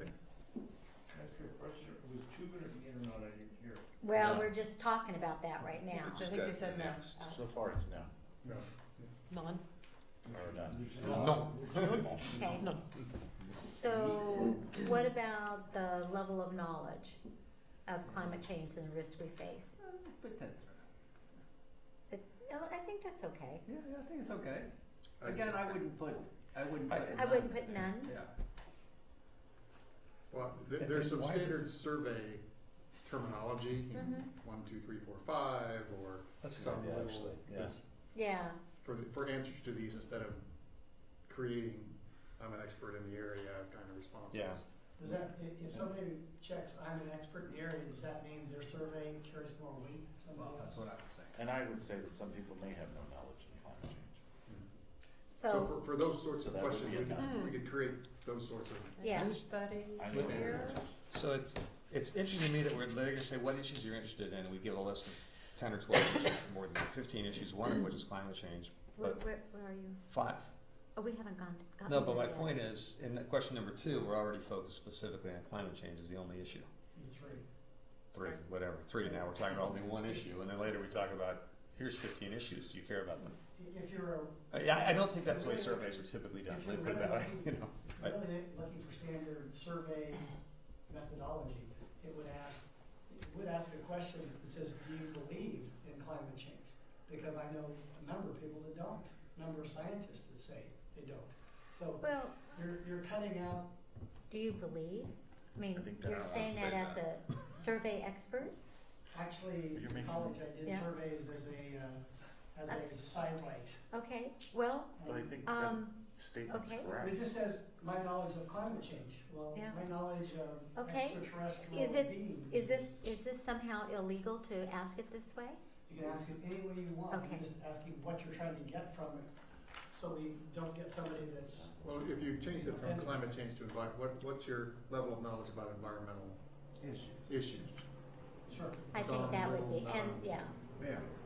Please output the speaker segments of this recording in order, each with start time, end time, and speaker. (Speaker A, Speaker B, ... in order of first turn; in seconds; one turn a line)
Speaker A: 1.1-3.8
Speaker B: 4.0-6.2
Speaker C: 4.1-4.5
Speaker D: 6.1-7.4
Speaker E: 6.5-8.1
Speaker D: 9.3-9.6
Speaker E: 10.3-12.6
Speaker F: 10.8-12.6
Speaker A: 10.8-11.9
Speaker C: 11.0-12.1
Speaker D: 11.7-12.8
Speaker B: 12.4-12.7
Speaker B: 13.7-17.2
Speaker B: 17.9-19.8
Speaker F: 18.1-18.4
Speaker F: 19.8-20.8
Speaker B: 22.1-23.6
Speaker F: 23.7-28.3
Speaker G: 25.2-25.8
Speaker C: 26.9-27.4
Speaker B: 27.1-28.1
Speaker G: 30.3-32.4
Speaker C: 30.7-31.6
Speaker G: 33.0-37.8
Speaker B: 33.9-34.3
Speaker C: 36.4-37.7
Speaker B: 38.1-38.6
Speaker G: 38.8-40.5
Speaker G: 41.2-44.7
Speaker C: 44.3-44.6
Speaker H: 45.0-50.8
Speaker F: 50.4-51.3
Speaker E: 51.3-54.2
Speaker B: 55.3-55.8
Speaker G: 55.5-59.0
Speaker E: 56.4-57.5
Speaker D: 57.2-57.6
Speaker D: 59.0-60.8
Speaker B: 59.0-59.3
Speaker E: 60.0-60.9
Speaker C: 60.1-69.2
Speaker B: 68.9-70.0
Speaker C: 70.1-70.5
Speaker B: 71.0-72.6
Speaker C: 71.8-76.7
Speaker H: 76.9-77.4
Speaker C: 78.1-83.3
Speaker H: 79.3-80.1
Speaker H: 83.5-90.3
Speaker C: 84.5-88.2
Speaker H: 90.9-103.7
Speaker B: 102.0-102.5
Speaker B: 104.3-108.5
Speaker E: 105.7-107.0
Speaker H: 109.1-113.8
Speaker E: 109.7-110.4
Speaker B: 110.6-110.9
Speaker B: 113.9-116.9
Speaker H: 115.0-115.4
Speaker E: 115.0-117.3
Speaker H: 116.9-122.9
Speaker B: 119.5-119.8
Speaker B: 120.8-125.6
Speaker H: 125.9-129.3
Speaker B: 127.1-127.4
Speaker H: 129.9-131.7
Speaker G: 131.8-136.4
Speaker H: 132.5-133.3
Speaker F: 136.8-137.3
Speaker G: 137.3-137.8
Speaker H: 138.5-138.9
Speaker G: 138.9-140.4
Speaker B: 138.9-140.5